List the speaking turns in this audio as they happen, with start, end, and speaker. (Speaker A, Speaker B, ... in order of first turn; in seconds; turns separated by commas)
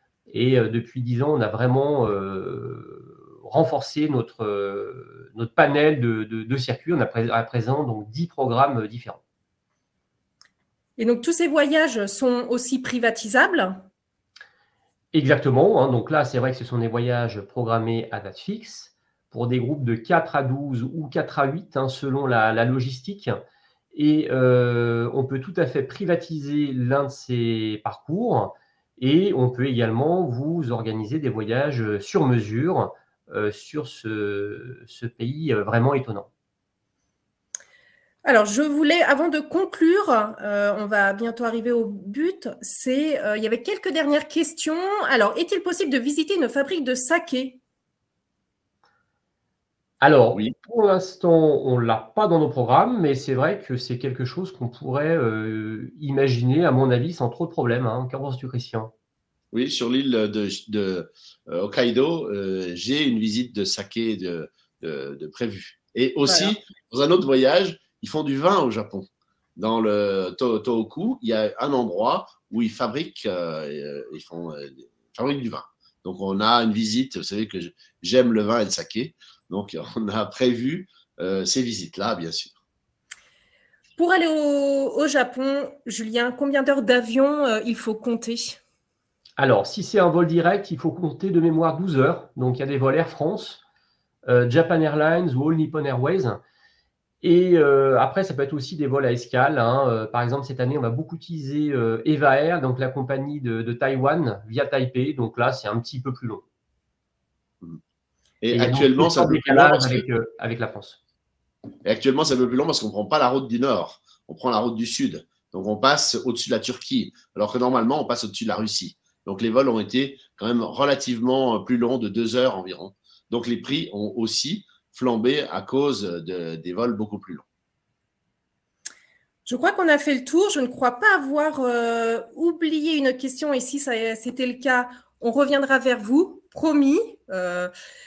Speaker A: 0.3-9.2, Speaker B: 11.0-13.9, Speaker A: 15.1-23.4, Speaker A: 23.9-36.3, Speaker B: 38.2-47.6, Speaker A: 50.0-58.9, Speaker C: 59.5-82.5, Speaker B: 66.2-66.5, Speaker B: 84.0-88.6, Speaker A: 89.4-93.6, Speaker A: 94.3-96.4, Speaker A: 97.2-106.4, Speaker C: 108.4-110.0, Speaker A: 108.5-111.0, Speaker C: 111.8-127.4, Speaker B: 129.4-137.7